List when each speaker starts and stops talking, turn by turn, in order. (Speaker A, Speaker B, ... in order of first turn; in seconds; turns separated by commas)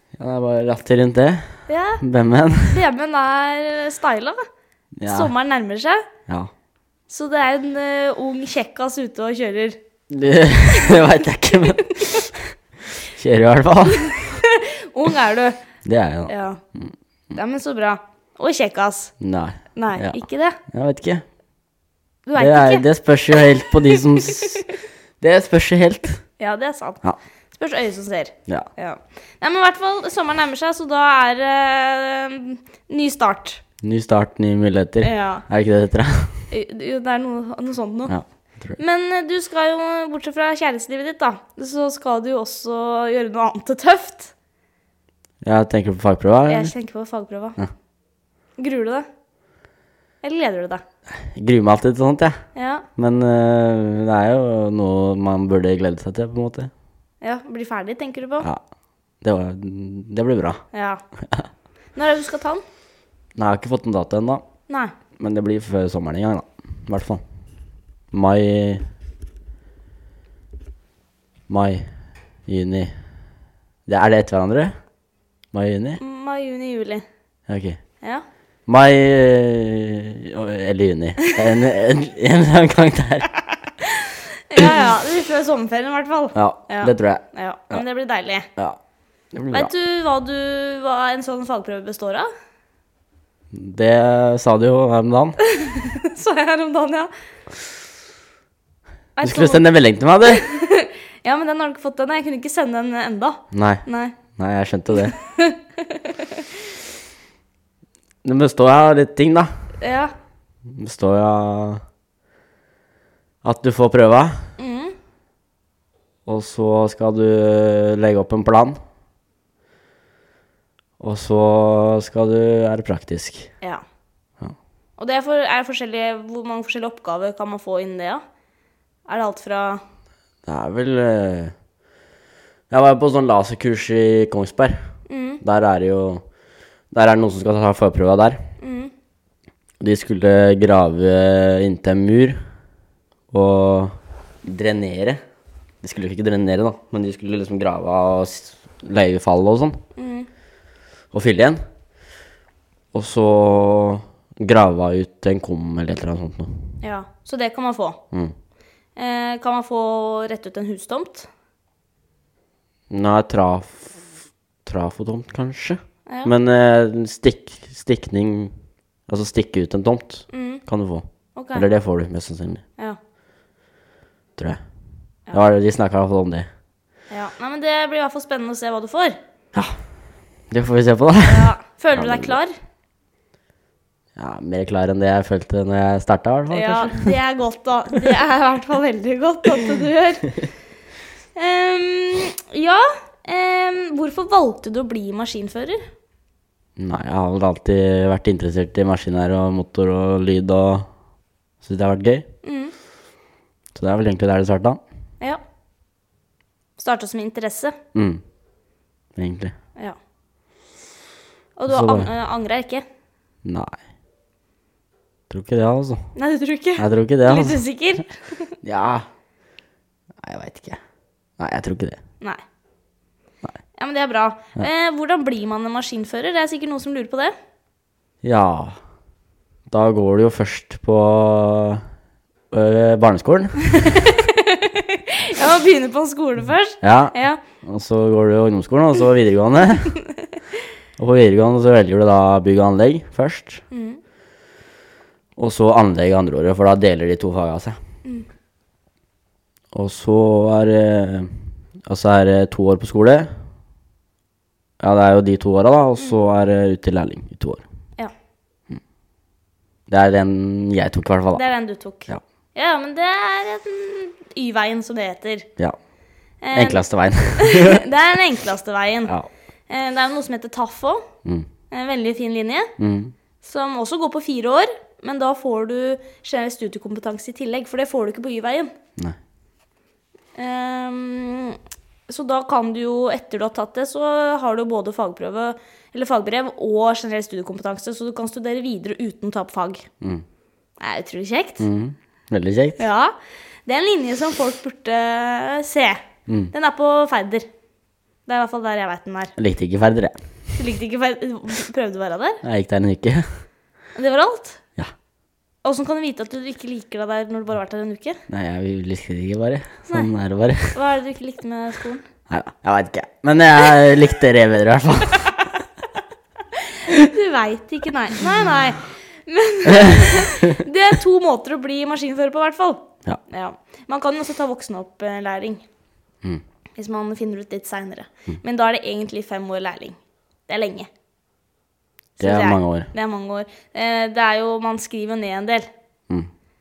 Speaker A: 0.2-2.8, Speaker B: 1.7-2.0, Speaker B: 2.6-4.4, Speaker A: 5.0-5.3, Speaker B: 5.1-6.0, Speaker B: 7.1-9.8, Speaker A: 10.1-12.5, Speaker B: 10.7-11.0, Speaker B: 11.8-12.3, Speaker A: 13.0-14.3, Speaker B: 13.9-15.6, Speaker A: 15.8-16.9, Speaker B: 16.3-16.6, Speaker B: 17.3-19.1, Speaker A: 19.2-21.2, Speaker B: 19.7-20.6, Speaker B: 22.2-22.9, Speaker A: 22.4-24.6, Speaker B: 24.0-24.6, Speaker A: 25.2-26.2, Speaker B: 26.4-27.0, Speaker B: 27.5-33.6, Speaker A: 33.8-36.3, Speaker B: 35.0-35.4, Speaker B: 36.5-38.1, Speaker A: 38.1-38.8, Speaker B: 38.8-44.3, Speaker A: 45.4-46.7, Speaker B: 46.5-47.6, Speaker B: 48.6-49.0, Speaker B: 50.2-50.8, Speaker A: 51.1-52.4, Speaker B: 52.5-52.9, Speaker A: 53.0-56.7, Speaker B: 57.2-58.5, Speaker A: 59.2-60.6, Speaker B: 60.7-61.0, Speaker B: 61.9-62.6, Speaker A: 63.3-64.4, Speaker B: 64.7-64.9, Speaker A: 65.2-67.2, Speaker A: 68.1-68.8, Speaker A: 71.5-71.9, Speaker A: 72.5-72.9, Speaker A: 73.9-74.7, Speaker A: 75.5-76.0, Speaker B: 76.0-77.0, Speaker A: 77.5-77.8, Speaker A: 78.7-83.3, Speaker B: 83.8-88.5, Speaker A: 86.3-87.8, Speaker A: 89.3-89.7, Speaker B: 89.5-92.3, Speaker A: 93.5-95.4, Speaker B: 95.4-97.1, Speaker B: 99.2-99.6, Speaker A: 99.2-100.5, Speaker B: 100.2-104.2, Speaker A: 103.5-105.1, Speaker B: 104.9-106.5, Speaker A: 108.2-109.5, Speaker B: 109.8-110.1, Speaker A: 110.7-111.8, Speaker A: 113.4-114.4, Speaker B: 114.6-114.9, Speaker A: 116.2-118.8, Speaker A: 121.0-123.5, Speaker B: 125.0-128.2, Speaker B: 129.1-129.8, Speaker A: 130.4-131.5, Speaker A: 132.7-134.8, Speaker B: 135.1-135.4, Speaker A: 135.4-136.2, Speaker A: 136.9-138.4, Speaker B: 138.6-138.9, Speaker A: 139.8-142.4, Speaker A: 143.3-145.2, Speaker A: 145.8-149.8, Speaker B: 150.0-150.3, Speaker A: 151.1-151.6, Speaker A: 152.9-156.6, Speaker B: 156.8-158.0, Speaker B: 158.9-161.3, Speaker A: 162.9-164.1, Speaker A: 164.6-168.5, Speaker A: 169.1-172.6, Speaker B: 170.3-170.6, Speaker B: 171.3-171.7, Speaker A: 175.3-176.5, Speaker B: 177.1-179.2, Speaker A: 180.5-182.4, Speaker B: 181.2-182.6, Speaker A: 184.2-187.1, Speaker B: 186.5-190.4, Speaker B: 191.3-195.8, Speaker A: 196.8-200.9, Speaker A: 201.6-202.2, Speaker B: 202.4-202.7, Speaker A: 203.7-204.8, Speaker B: 206.8-207.8, Speaker A: 207.9-208.2, Speaker A: 209.2-209.5, Speaker B: 211.6-212.8, Speaker A: 211.7-212.1, Speaker A: 213.4-213.8, Speaker A: 215.3-216.1, Speaker B: 216.1-218.5, Speaker A: 216.8-217.6, Speaker A: 218.6-219.0, Speaker A: 220.2-220.8, Speaker A: 221.4-222.0, Speaker B: 223.8-227.3, Speaker A: 228.2-228.8, Speaker A: 229.7-231.8, Speaker A: 232.5-234.1, Speaker B: 233.7-237.4, Speaker A: 236.8-239.9, Speaker A: 241.0-243.6, Speaker B: 243.7-244.0, Speaker A: 245.4-247.8, Speaker A: 249.7-253.3, Speaker A: 254.8-257.6, Speaker A: 259.9-261.4, Speaker B: 261.3-265.5, Speaker B: 266.4-266.8, Speaker A: 266.5-267.8, Speaker B: 267.4-269.1, Speaker B: 269.7-271.0, Speaker B: 271.7-272.7, Speaker A: 272.8-273.1, Speaker B: 273.4-278.7, Speaker B: 280.3-289.9, Speaker B: 290.8-291.6, Speaker A: 291.6-292.8, Speaker B: 292.8-293.1, Speaker B: 293.6-297.4, Speaker A: 296.3-296.5, Speaker B: 298.3-299.3, Speaker A: 299.4-300.2, Speaker B: 300.6-302.4, Speaker A: 302.4-303.3, Speaker B: 303.9-304.6, Speaker B: 305.6-308.2, Speaker A: 308.3-310.8, Speaker B: 310.7-312.0, Speaker A: 312.3-315.4, Speaker B: 316.6-325.6, Speaker A: 319.6-320.6, Speaker B: 326.8-330.0, Speaker B: 330.5-330.9, Speaker B: 332.2-335.7, Speaker A: 332.2-332.9